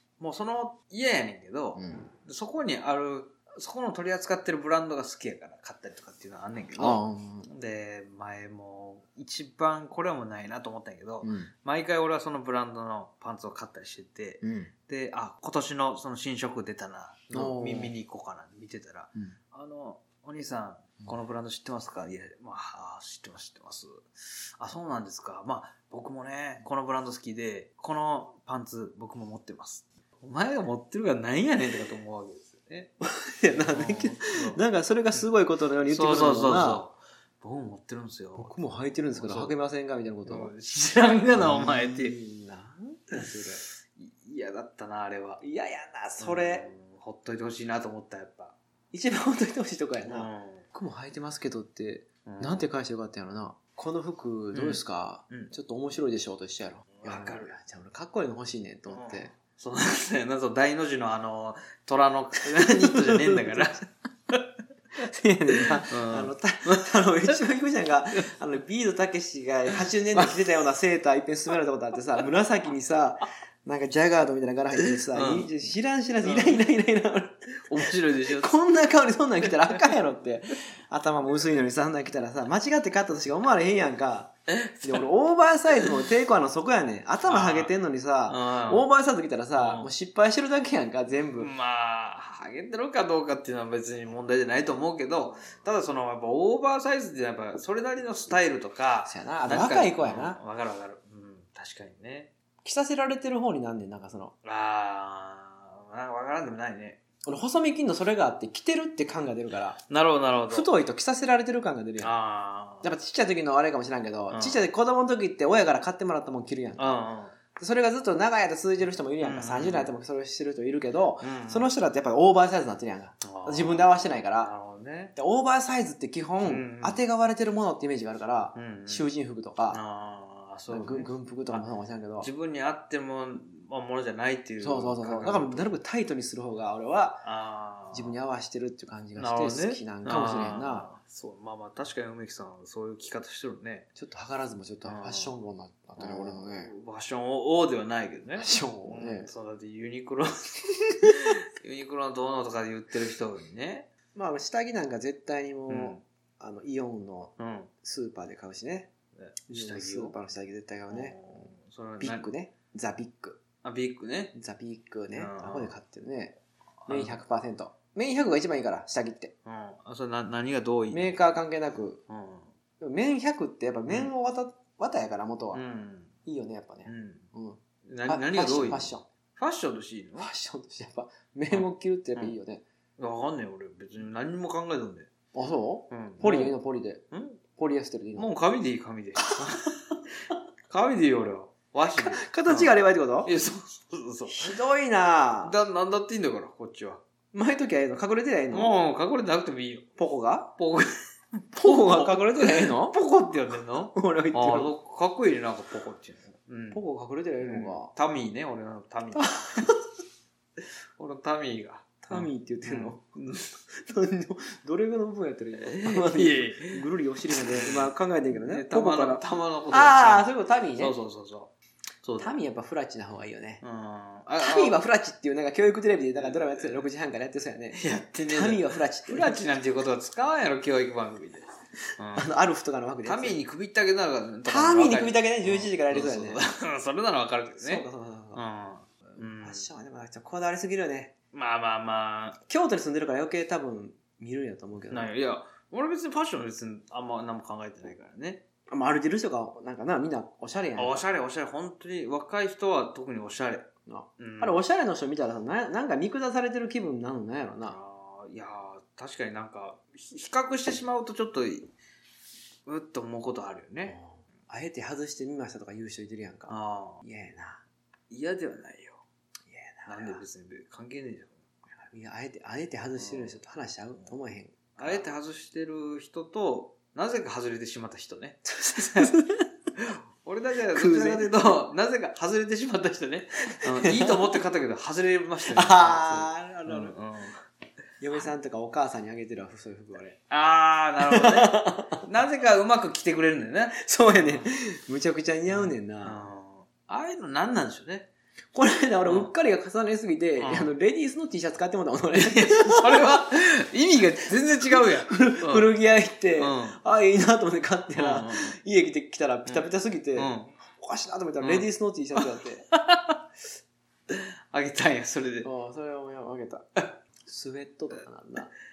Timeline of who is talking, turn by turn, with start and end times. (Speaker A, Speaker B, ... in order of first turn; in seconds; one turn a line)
Speaker A: 0.2-24.0
Speaker B: 1.8-2.1
Speaker B: 6.8-7.5
Speaker B: 11.2-11.5
Speaker B: 14.4-14.7
Speaker B: 17.3-17.9
Speaker A: 24.6-32.9
Speaker B: 33.0-36.9
Speaker A: 33.5-34.6
Speaker A: 35.9-38.6
Speaker B: 38.4-40.5
Speaker A: 39.1-39.5
Speaker A: 40.2-42.1
Speaker B: 41.3-43.6
Speaker A: 44.0-45.4
Speaker B: 45.4-46.7
Speaker A: 46.2-48.5
Speaker B: 48.9-59.3
Speaker A: 50.0-50.6
Speaker A: 52.2-52.7
Speaker A: 54.5-55.5
Speaker A: 57.0-57.5
Speaker A: 58.9-64.4
Speaker B: 62.5-63.8
Speaker B: 65.1-84.3
Speaker A: 65.9-66.3
Speaker A: 69.7-70.3
Speaker A: 74.9-75.5
Speaker A: 76.2-76.6
Speaker A: 77.6-78.5
Speaker A: 79.4-79.8
Speaker A: 84.5-85.0
Speaker B: 84.8-91.5
Speaker A: 87.2-87.7
Speaker A: 88.3-88.9
Speaker A: 89.5-89.9
Speaker A: 91.4-102.3
Speaker B: 99.0-100.4
Speaker B: 102.6-104.3
Speaker A: 104.4-107.0
Speaker B: 107.2-109.8
Speaker A: 109.9-110.7
Speaker B: 110.5-112.2
Speaker A: 112.0-112.9
Speaker B: 112.8-117.0
Speaker A: 114.3-114.7
Speaker A: 116.8-117.3
Speaker B: 117.5-124.5
Speaker A: 119.2-119.9
Speaker A: 121.2-121.7
Speaker A: 123.2-125.1
Speaker B: 125.1-129.8
Speaker A: 126.4-127.0
Speaker A: 128.5-129.1
Speaker A: 129.7-131.6
Speaker B: 130.7-132.3
Speaker A: 132.2-135.8
Speaker B: 134.6-137.2
Speaker A: 137.2-138.2
Speaker B: 137.9-140.9
Speaker A: 139.2-143.9
Speaker B: 143.9-146.7
Speaker A: 144.8-145.3
Speaker A: 146.0-153.9
Speaker B: 148.4-149.3
Speaker B: 154.1-158.9
Speaker A: 155.7-156.0
Speaker A: 157.4-157.7
Speaker A: 159.2-160.2
Speaker B: 159.5-161.2
Speaker A: 160.9-162.2
Speaker B: 162.0-163.4
Speaker A: 163.6-164.3
Speaker B: 164.3-166.4
Speaker A: 165.1-165.7
Speaker A: 166.8-167.2
Speaker B: 166.9-169.3
Speaker A: 169.4-171.2
Speaker B: 170.9-172.0
Speaker A: 172.1-172.5
Speaker B: 172.8-175.6
Speaker A: 175.5-176.1
Speaker B: 176.2-179.1
Speaker A: 176.8-177.2
Speaker A: 177.8-180.3
Speaker B: 180.2-182.6
Speaker A: 181.5-182.4
Speaker A: 183.0-185.1
Speaker B: 185.3-187.0
Speaker A: 185.9-186.6
Speaker A: 187.1-187.4
Speaker B: 187.6-188.3
Speaker A: 188.2-189.8
Speaker B: 189.2-189.7
Speaker A: 190.7-192.7
Speaker B: 192.0-193.3
Speaker A: 193.2-194.6
Speaker B: 194.3-195.6
Speaker A: 195.4-197.0
Speaker B: 197.3-198.7
Speaker A: 198.5-199.8
Speaker B: 200.0-200.5
Speaker A: 200.6-200.9
Speaker B: 201.5-203.0
Speaker A: 201.6-206.8
Speaker B: 203.8-204.7
Speaker B: 206.7-207.9
Speaker A: 207.4-209.6
Speaker B: 209.2-209.8
Speaker A: 211.0-213.5
Speaker B: 212.0-213.0
Speaker B: 213.8-220.9
Speaker A: 215.6-216.8
Speaker A: 217.4-221.5
Speaker A: 222.0-222.4
Speaker B: 222.2-223.6
Speaker A: 223.6-224.8
Speaker B: 224.4-229.6
Speaker A: 226.2-226.8
Speaker A: 227.7-231.5
Speaker A: 232.0-232.3
Speaker B: 232.1-233.4
Speaker A: 233.0-239.7
Speaker B: 234.4-236.4
Speaker B: 237.5-238.4
Speaker B: 239.1-241.1
Speaker A: 241.3-242.4
Speaker B: 242.5-245.1
Speaker A: 244.9-248.4
Speaker B: 248.7-251.0
Speaker A: 250.8-253.7
Speaker B: 253.8-257.8
Speaker A: 254.2-254.6
Speaker A: 257.6-261.7
Speaker A: 262.6-264.0
Speaker B: 263.8-267.6
Speaker A: 266.5-267.0
Speaker A: 268.1-269.0
Speaker B: 269.5-270.2
Speaker A: 269.9-271.4
Speaker B: 271.9-275.1
Speaker A: 272.9-273.4
Speaker A: 274.8-279.1
Speaker B: 278.5-279.4
Speaker A: 279.8-287.4
Speaker B: 280.7-281.4
Speaker B: 283.8-284.4
Speaker B: 285.4-286.9
Speaker B: 288.0-290.1
Speaker A: 290.3-294.5
Speaker B: 291.0-292.0
Speaker B: 293.8-296.2
Speaker A: 295.5-298.1
Speaker B: 298.5-303.3
Speaker A: 300.4-300.7
Speaker A: 302.1-305.7
Speaker B: 304.3-312.7
Speaker A: 306.4-306.8
Speaker A: 307.9-308.5
Speaker A: 309.4-310.5
Speaker A: 311.4-312.2
Speaker A: 312.7-313.2
Speaker A: 314.1-315.5
Speaker B: 315.4-316.6
Speaker B: 317.2-318.5